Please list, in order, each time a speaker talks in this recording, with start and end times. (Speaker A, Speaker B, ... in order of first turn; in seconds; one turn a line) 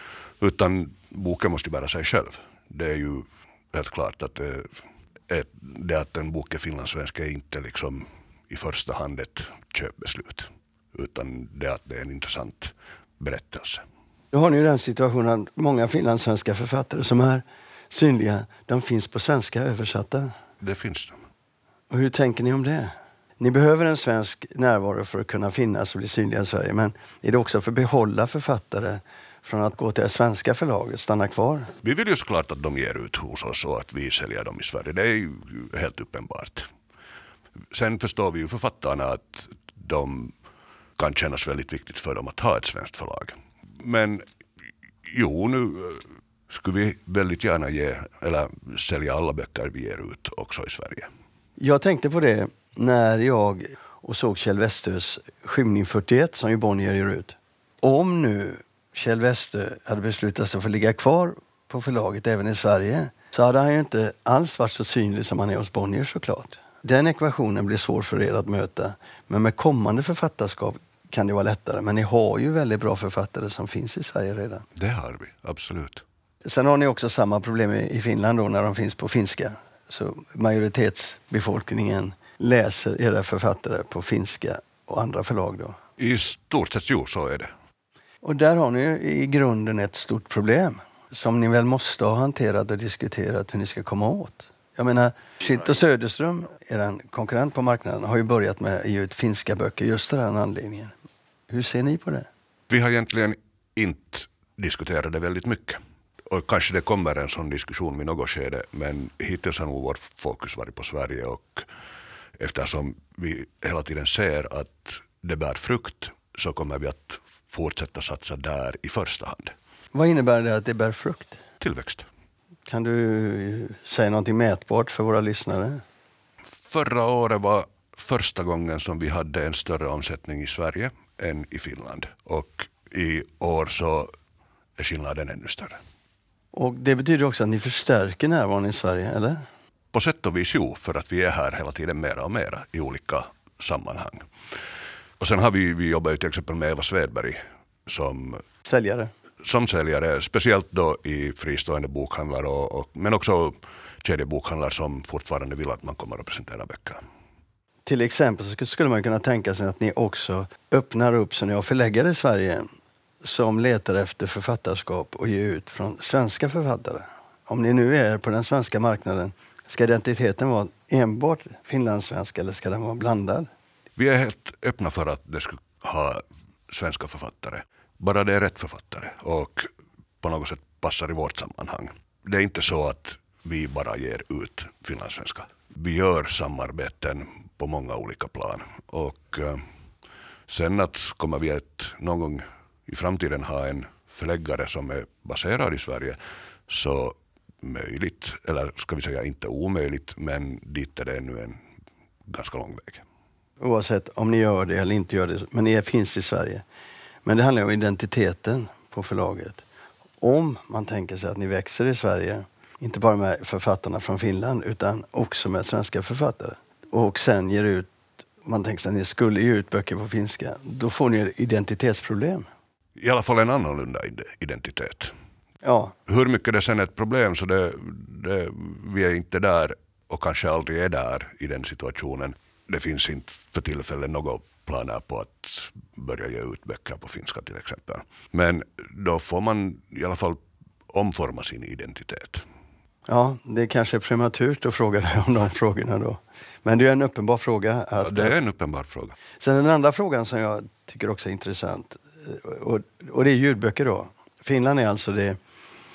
Speaker A: 0.4-4.7
Speaker A: 5.3-13.8
Speaker B: 14.3-20.3
Speaker A: 20.6-21.2
Speaker B: 21.9-31.7
Speaker A: 31.8-36.7
Speaker A: 37.7-40.3
Speaker A: 41.0-44.2
Speaker A: 45.0-51.1
Speaker B: 51.6-74.7
Speaker A: 74.8-76.0
Speaker B: 76.5-85.8
Speaker A: 86.0-87.5
Speaker B: 88.2-100.9
Speaker B: 101.5-102.3
Speaker A: 102.7-111.7
Speaker A: 112.4-119.5
Speaker B: 119.9-121.4
Speaker A: 121.6-122.1
Speaker B: 122.7-125.8
Speaker A: 126.6-134.1
Speaker A: 134.8-135.8
Speaker B: 136.5-139.4
Speaker A: 139.9-144.3
Speaker A: 145.2-148.4
Speaker B: 148.7-149.1
Speaker A: 149.4-157.0
Speaker B: 157.9-162.7
Speaker B: 163.2-173.5
Speaker A: 174.0-179.7
Speaker A: 180.2-189.7
Speaker A: 190.5-201.6
Speaker A: 202.3-203.0
Speaker B: 203.6-206.6
Speaker B: 207.2-209.6
Speaker B: 210.2-217.9
Speaker B: 218.4-222.5
Speaker A: 223.0-225.1
Speaker B: 225.6-225.9
Speaker A: 226.1-242.4
Speaker B: 243.1-248.3
Speaker A: 248.0-249.2
Speaker B: 249.4-255.4